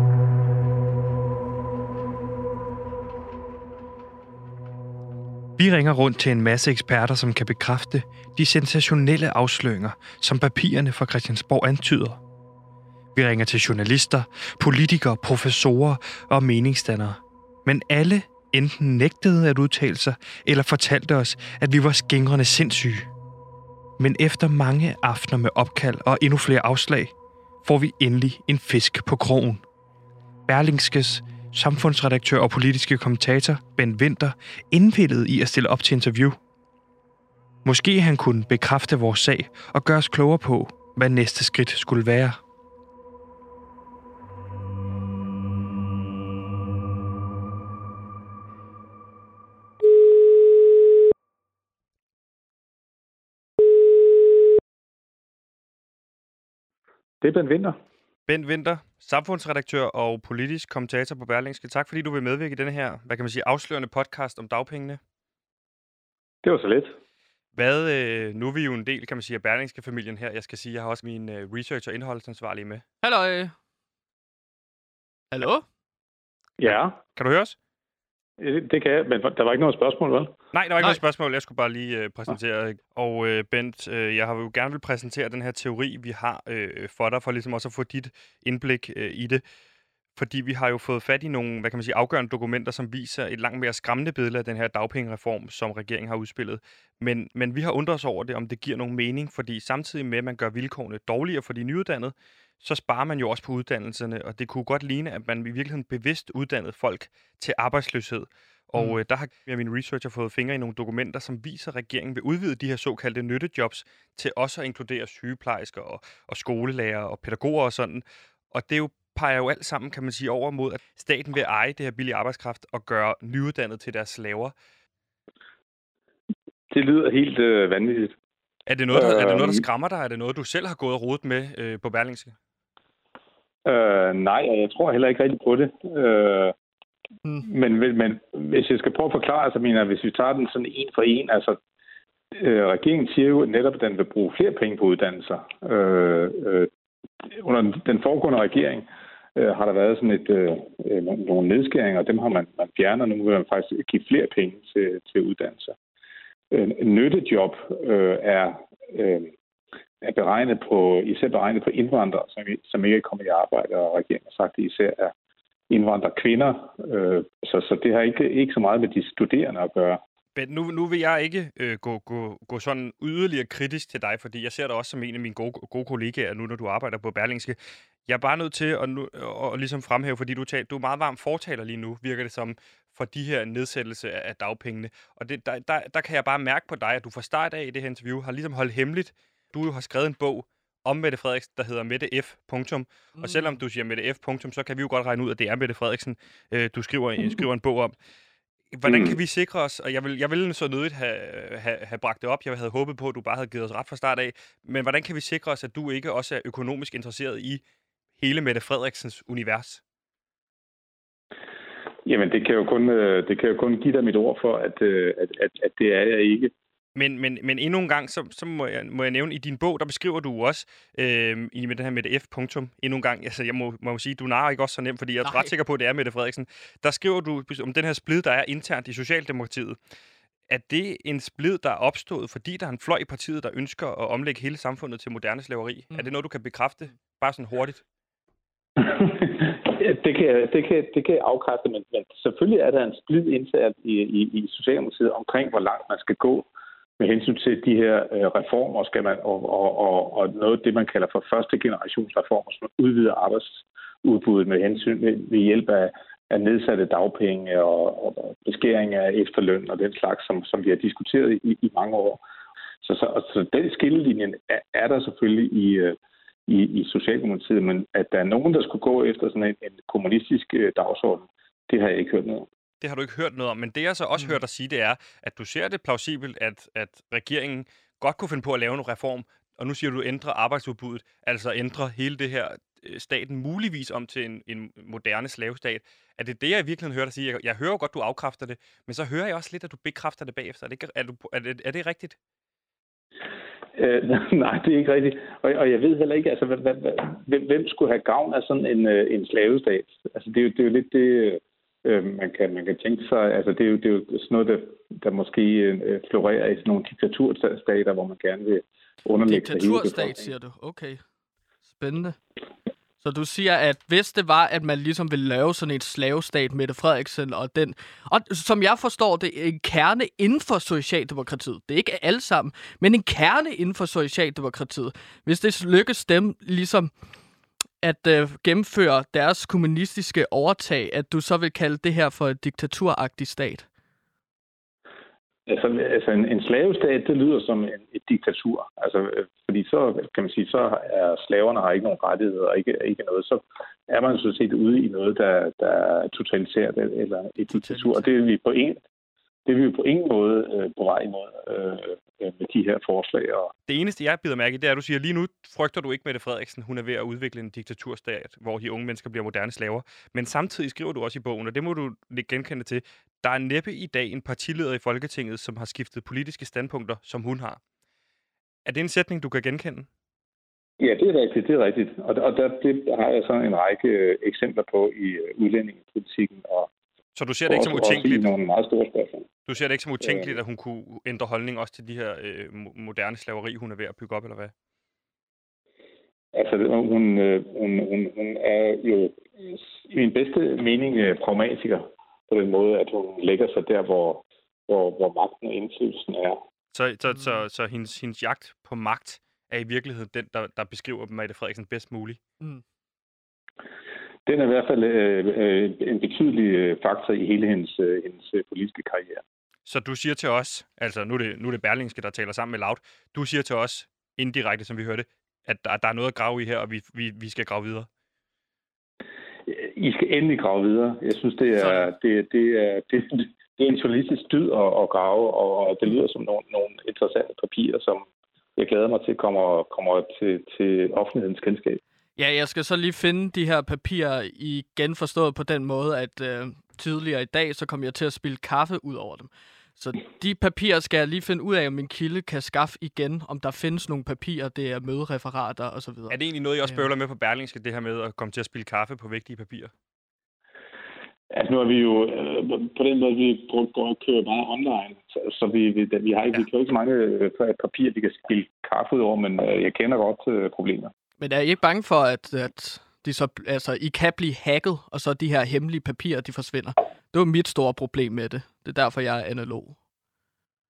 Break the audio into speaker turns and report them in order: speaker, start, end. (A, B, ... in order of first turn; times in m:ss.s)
0:05.6-0:12.2 A
0:13.1-0:23.1 A
0:24.0-0:29.6 A
0:30.5-0:36.4 A
0:37.6-0:42.4 A
0:57.2-0:57.8 B
0:58.3-1:05.0 C
1:06.4-1:07.0 B
1:07.5-1:12.8 C
1:13.0-1:13.5 D
1:15.3-1:15.6 D
1:16.6-1:17.0 B
1:16.6-1:17.6 C
1:18.4-1:20.3 B
1:20.5-1:29.4 C
1:30.2-2:04.5 C
2:06.7-2:08.1 B
2:08.7-2:12.4 C
2:08.9-2:09.6 B
2:13.6-2:16.5 B
2:17.4-2:21.6 B
2:22.4-2:26.7 B
2:27.3-2:28.8 B
2:29.4-2:35.8 B
2:36.5-2:39.3 B
2:40.0-2:45.1 B
2:45.7-2:50.0 B
2:50.4-3:17.9 C
3:13.2-3:13.6 D
3:18.7-3:27.6 C
3:18.9-3:19.2 B
3:28.2-3:29.8 C
3:32.1-3:36.5 B
3:37.0-3:49.8 C
3:45.2-3:45.5 D
3:50.5-3:57.8 C
3:58.8-4:06.5 B
4:07.0-4:22.2 B
4:22.8-4:26.0 B
4:26.5-4:32.5 B
4:32.8-4:52.2 C
4:53.8-5:10.3 B
5:09.2-5:11.0 D
5:11.7-5:12.2 D
5:13.0-5:26.9 D
5:27.8-5:33.7 D
5:35.5-5:48.8 B
5:47.5-5:48.1 D
5:49.5-5:53.5 B
5:53.7-6:07.6 C
6:08.6-6:09.9 C
6:10.8-6:16.7 B
6:17.2-6:18.4 C
6:17.5-6:19.3 B
6:19.5-6:24.5 C
6:20.0-6:20.4 B
6:26.4-6:36.4 B
6:36.7-6:42.2 C
6:37.1-6:37.4 D
6:44.3-6:49.2 B
6:49.7-6:57.9 C
6:59.5-7:11.8 B
7:01.6-7:01.9 D
7:12.2-7:26.9 D
7:26.1-7:29.7 C
7:31.3-7:40.9 B
7:41.2-7:49.8 D